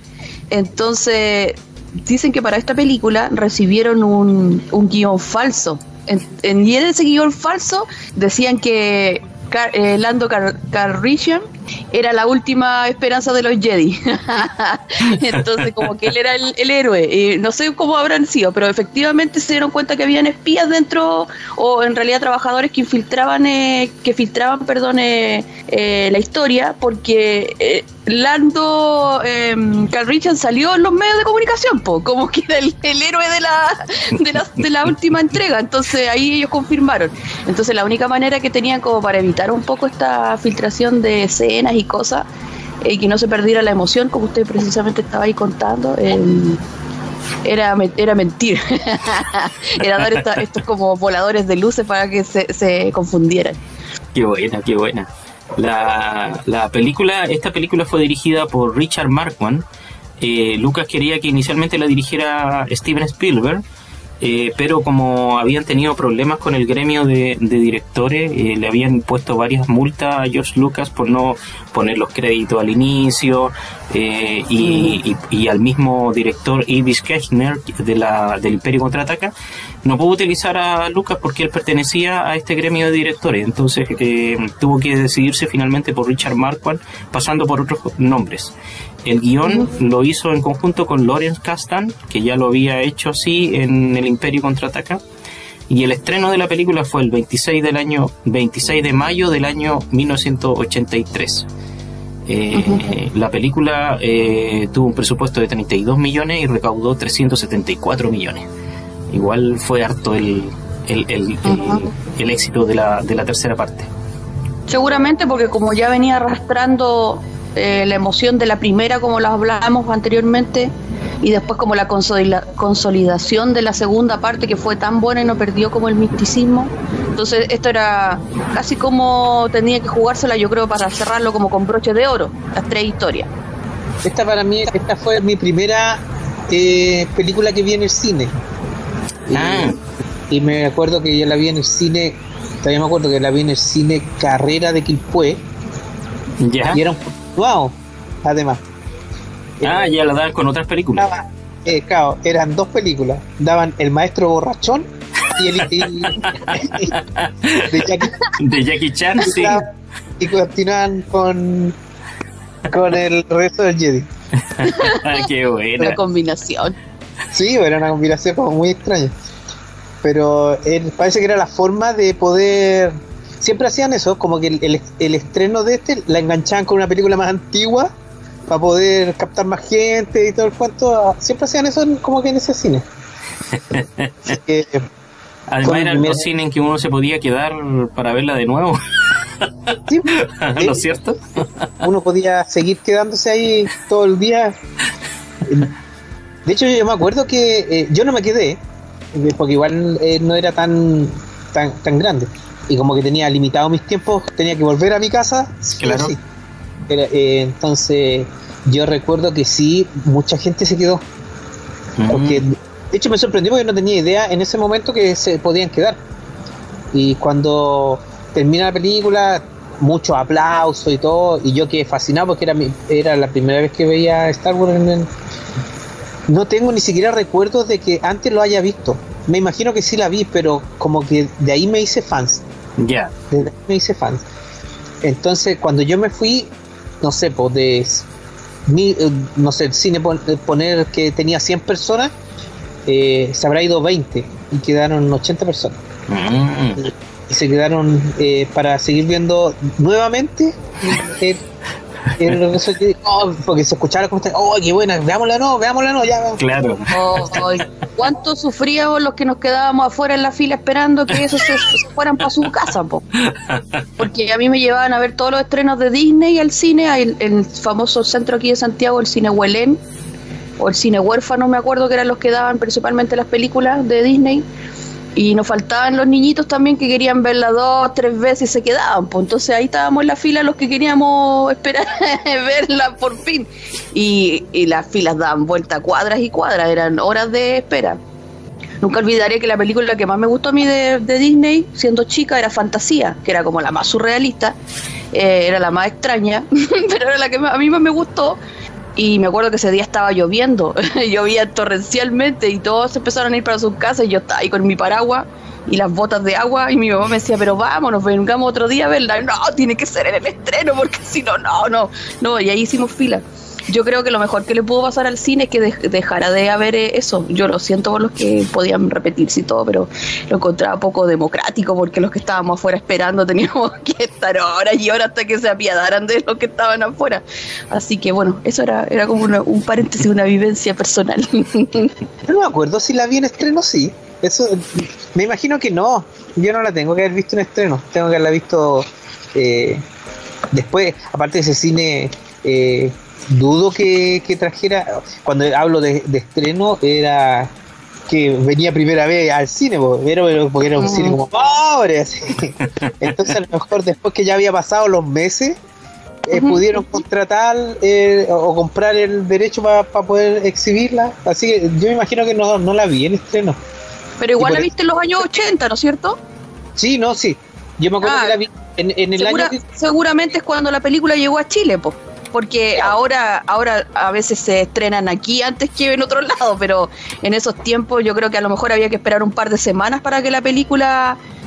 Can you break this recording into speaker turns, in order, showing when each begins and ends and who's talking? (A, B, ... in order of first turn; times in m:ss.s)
0:00.5-0:42.3 A
0:42.8-0:46.6 A
0:47.4-0:53.6 A
0:50.0-0:50.3 B
0:54.1-0:59.6 B
1:00.2-1:03.6 B
1:04.2-1:19.3 B
1:14.6-1:15.0 A
1:19.8-1:28.5 B
1:29.0-1:35.0 B
1:35.7-1:41.5 B
1:42.3-1:48.5 B
1:42.5-1:43.0 A
1:49.1-1:53.9 B
1:51.5-1:51.9 A
1:54.7-2:13.3 A
2:14.0-2:18.3 C
2:19.3-2:19.8 C
2:19.3-2:19.8 B
2:20.3-2:25.4 C
2:26.4-2:26.8 B
2:26.7-2:28.6 C
2:29.6-2:29.9 C
2:29.6-2:31.1 B
2:31.0-2:36.9 C
2:36.0-2:39.6 B
2:37.7-2:38.2 C
2:39.3-2:39.7 C
2:40.2-2:41.8 C
2:42.7-2:44.1 C
2:44.4-2:46.0 B
2:44.6-2:45.1 A
2:45.8-2:46.8 A
2:47.3-2:49.1 C
2:50.0-2:57.9 C
2:58.5-3:02.8 C
3:03.5-3:04.1 B
3:04.2-3:04.9 C
3:05.5-3:11.7 B
3:05.6-3:06.3 C
3:09.9-3:10.8 C
3:11.8-3:14.6 C
3:15.4-3:15.7 C
3:16.5-3:18.6 C
3:19.1-3:26.2 C
3:25.8-3:26.1 B
3:26.9-3:31.0 C
3:32.0-3:32.4 B
3:32.1-3:36.0 C
3:36.9-3:45.1 C
3:46.3-3:52.4 C
3:52.8-3:53.1 B
3:53.3-3:54.2 C
3:55.0-3:58.1 C
3:58.7-4:02.1 C
4:02.9-4:05.8 C
4:06.1-4:06.9 B
4:06.8-4:11.4 C
4:12.2-4:16.4 C
4:16.4-4:17.6 B
4:16.9-4:23.0 A
4:23.2-4:23.9 B
4:24.0-4:29.8 A
4:30.6-4:34.4 A
4:35.2-4:48.0 A
4:48.8-4:54.6 A
4:55.1-4:58.4 A
4:59.0-5:31.9 A
5:32.3-5:39.8 C
5:40.5-5:47.5 C
5:48.1-5:55.6 C
5:50.8-5:51.2 A
5:56.3-6:03.6 C
5:56.3-5:56.6 A
6:04.2-6:06.2 A
6:04.4-6:04.7 C
6:06.8-6:09.6 C
6:08.0-6:08.4 A
6:09.2-6:21.2 A